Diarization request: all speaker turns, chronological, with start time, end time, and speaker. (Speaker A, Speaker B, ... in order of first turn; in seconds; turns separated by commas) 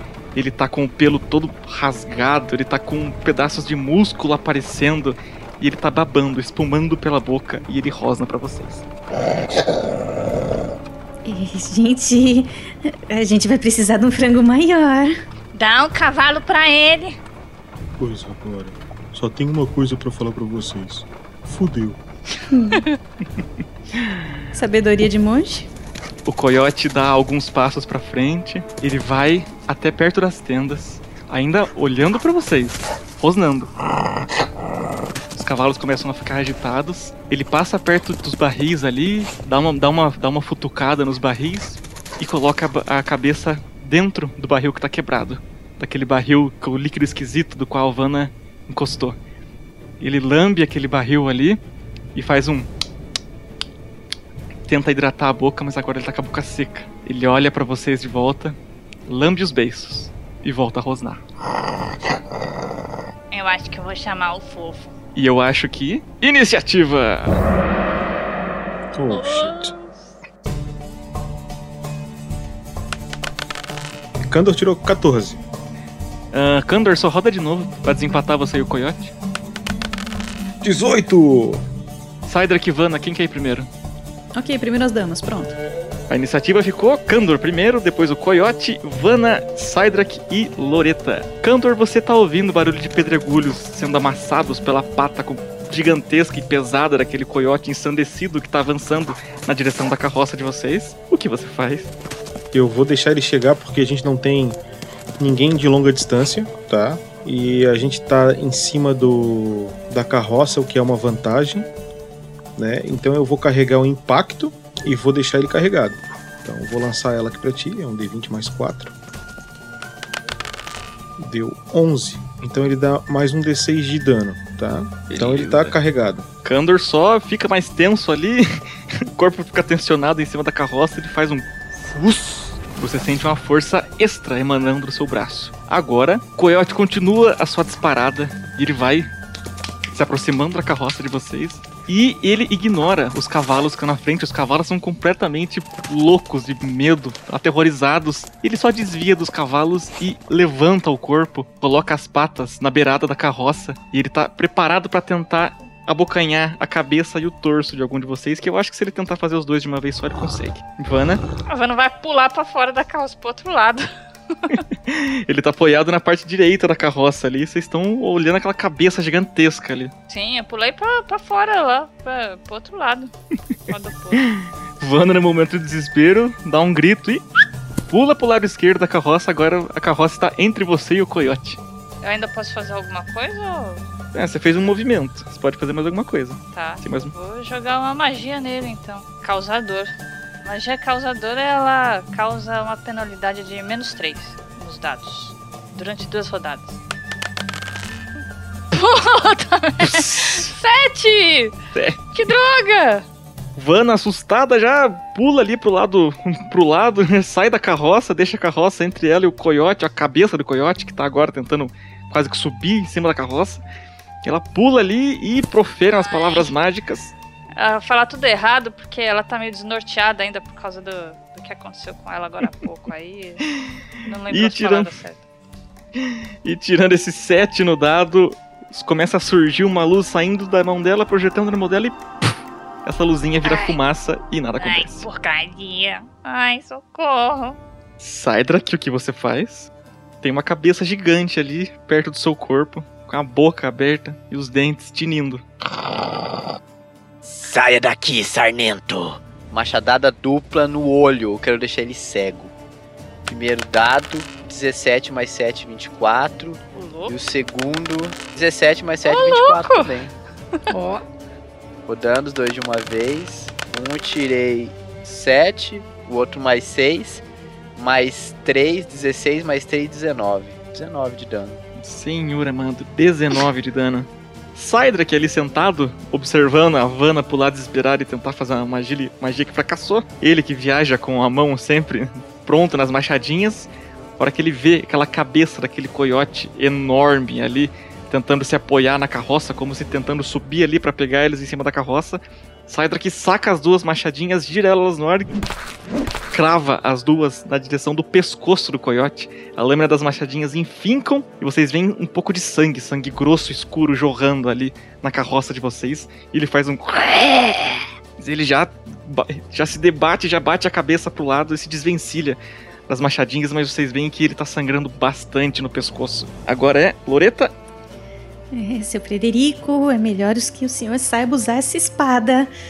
Speaker A: 0.3-8.8, Speaker B: 11.2-15.1, Speaker C: 15.5-17.2, Speaker D: 18.0-22.0, Speaker B: 22.5-22.8, Speaker B: 24.5-25.7, Speaker A: 26.2-33.7, Speaker A: 35.3-49.2, Speaker A: 50.0-51.6, Speaker A: 52.1-52.7, Speaker A: 54.7-61.2, Speaker C: 63.3-64.9, Speaker A: 65.1-67.4, Speaker D: 68.9-69.7, Speaker C: 69.1-70.1, Speaker D: 74.2-75.4, Speaker A: 76.3-79.1, Speaker D: 80.6-81.6, Speaker A: 82.2-83.7, Speaker B: 84.4-85.5, Speaker A: 86.1-101.9, Speaker D: 102.5-104.6, Speaker D: 105.2-111.7, Speaker D: 112.5-118.9, Speaker D: 121.2-126.2, Speaker A: 125.1-125.8, Speaker A: 126.4-128.5, Speaker A: 129.0-139.1, Speaker A: 139.9-161.2, Speaker C: 161.5-164.6, Speaker A: 164.5-169.9, Speaker C: 170.1-173.1, Speaker C: 173.7-174.3, Speaker A: 174.1-177.2, Speaker A: 177.9-181.6, Speaker C: 182.0-183.9, Speaker A: 184.1-187.1, Speaker C: 186.5-196.8, Speaker C: 198.7-201.5, Speaker A: 199.8-200.5, Speaker A: 201.7-202.0, Speaker C: 202.1-203.1, Speaker A: 203.6-213.6, Speaker A: 214.2-217.1, Speaker C: 216.0-216.5, Speaker C: 217.6-223.4, Speaker C: 224.0-225.2, Speaker A: 224.3-224.9, Speaker A: 226.0-235.0, Speaker C: 233.4-233.8, Speaker C: 234.6-237.6, Speaker A: 238.0-239.7, Speaker A: 240.2-245.4, Speaker E: 247.2-249.2, Speaker F: 249.5-252.5, Speaker F: 253.3-260.1, Speaker C: 256.7-257.1, Speaker C: 259.0-259.9, Speaker B: 260.7-261.0, Speaker F: 261.9-267.2, Speaker F: 267.7-271.6, Speaker A: 271.8-295.4, Speaker A: 296.3-317.5, Speaker B: 318.5-322.5